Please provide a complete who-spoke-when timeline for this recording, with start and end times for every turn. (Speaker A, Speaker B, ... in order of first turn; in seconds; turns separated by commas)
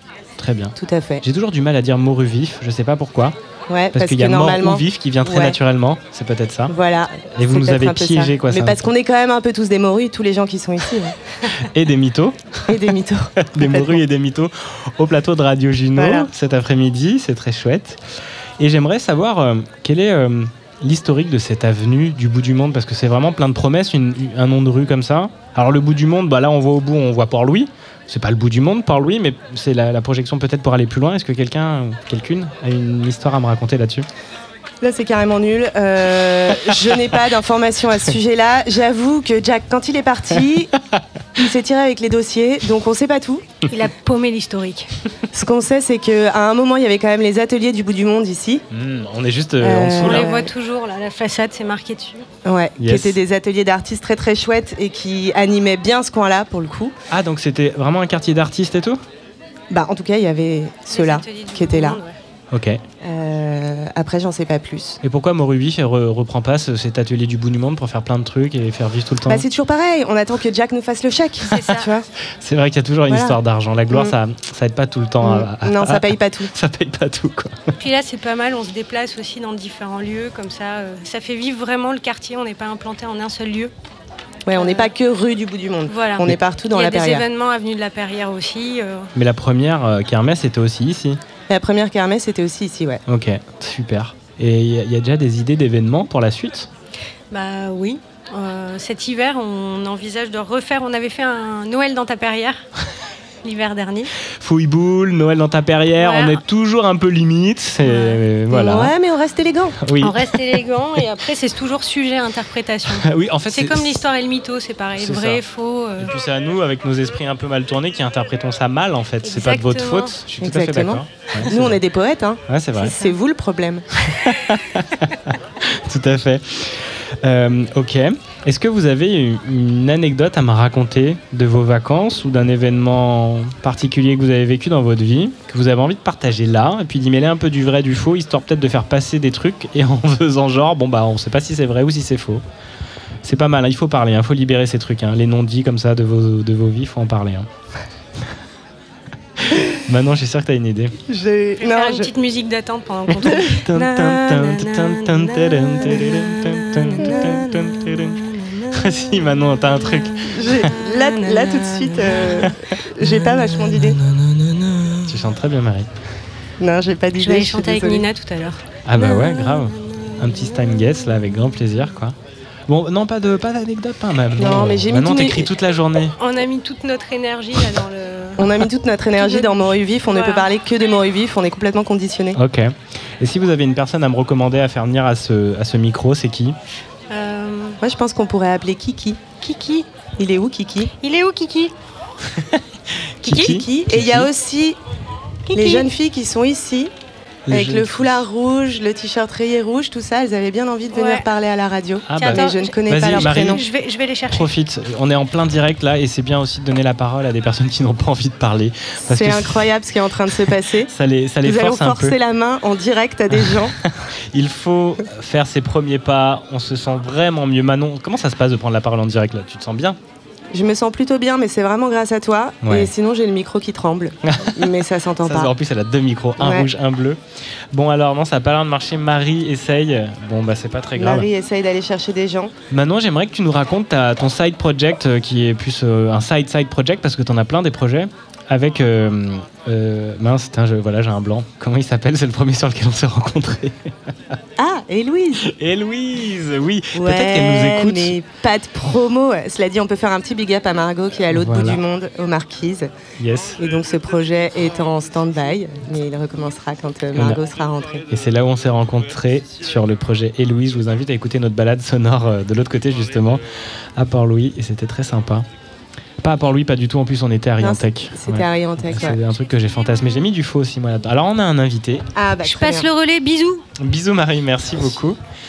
Speaker A: 0.4-3.4, Speaker B: 0.8-1.2, Speaker B: 3.7-5.6, Speaker A: 3.9-6.7, Speaker B: 6.7-11.2, Speaker A: 7.3-8.8, Speaker A: 11.5-12.7, Speaker B: 12.7-14.0, Speaker A: 13.5-18.0, Speaker B: 15.9-16.3, Speaker A: 18.6-34.1, Speaker B: 34.8-40.7, Speaker B: 41.4-43.4, Speaker C: 43.7-44.9, Speaker B: 45.3-48.6, Speaker A: 48.7-50.3, Speaker B: 49.6-50.5, Speaker C: 50.0-52.2, Speaker B: 52.4-56.9, Speaker A: 52.8-53.2, Speaker A: 57.1-59.0, Speaker B: 59.7-62.0, Speaker C: 60.9-62.2, Speaker A: 62.5-62.8, Speaker B: 63.0-65.0, Speaker A: 65.0-69.4, Speaker B: 69.3-72.1, Speaker C: 71.5-71.9, Speaker A: 72.4-77.7, Speaker B: 73.1-73.4, Speaker B: 73.9-74.2, Speaker B: 75.2-76.5, Speaker C: 77.8-83.7, Speaker B: 84.5-87.2, Speaker C: 84.5-84.9, Speaker C: 85.9-89.1, Speaker A: 89.1-91.2, Speaker B: 91.5-93.0, Speaker A: 93.0-96.7, Speaker C: 97.3-102.6, Speaker C: 103.4-104.1, Speaker A: 104.4-108.9, Speaker C: 106.0-106.4, Speaker C: 107.8-108.2, Speaker B: 108.5-109.8, Speaker A: 109.8-110.3, Speaker C: 110.0-116.1, Speaker A: 112.9-114.0, Speaker A: 115.0-115.4, Speaker A: 116.0-121.8, Speaker C: 119.2-120.2, Speaker B: 120.4-123.9, Speaker A: 122.5-122.9, Speaker C: 122.9-123.1, Speaker A: 124.1-142.4, Speaker A: 143.2-147.5, Speaker A: 149.5-151.0, Speaker B: 151.1-152.1, Speaker C: 151.6-162.6, Speaker A: 153.2-160.7, Speaker B: 160.3-164.0, Speaker C: 163.6-164.9, Speaker A: 165.0-165.9, Speaker B: 166.6-168.1, Speaker C: 167.2-171.5, Speaker A: 168.8-172.2, Speaker A: 172.7-176.2, Speaker B: 174.3-175.5, Speaker C: 176.2-178.5, Speaker B: 178.4-182.4, Speaker C: 179.2-180.5, Speaker A: 182.3-186.6, Speaker C: 187.1-187.8, Speaker B: 187.8-189.2, Speaker C: 189.4-189.9, Speaker B: 190.2-190.9, Speaker C: 191.0-191.7, Speaker A: 192.3-194.3, Speaker C: 193.2-193.6, Speaker B: 193.2-194.8, Speaker C: 195.4-195.9, Speaker B: 195.5-196.9, Speaker A: 197.5-198.2, Speaker B: 197.5-203.6, Speaker C: 200.9-201.2, Speaker A: 202.1-203.6, Speaker C: 202.2-204.5, Speaker A: 204.3-209.6, Speaker B: 209.0-210.9, Speaker A: 210.3-212.2, Speaker B: 211.4-213.7, Speaker A: 213.4-220.0, Speaker B: 220.5-225.5, Speaker A: 222.6-222.9, Speaker A: 224.2-224.7, Speaker A: 225.2-227.2, Speaker B: 226.4-226.7, Speaker A: 227.7-231.3, Speaker B: 230.9-232.5, Speaker A: 232.7-244.3, Speaker B: 244.6-245.4, Speaker A: 245.4-248.1, Speaker B: 246.9-252.9, Speaker A: 251.3-251.8, Speaker A: 253.2-253.6, Speaker B: 253.6-258.0, Speaker A: 258.1-263.4, Speaker A: 263.9-265.4, Speaker A: 266.2-272.1, Speaker B: 267.6-269.2, Speaker B: 272.1-272.9, Speaker C: 272.4-273.6, Speaker A: 273.8-275.2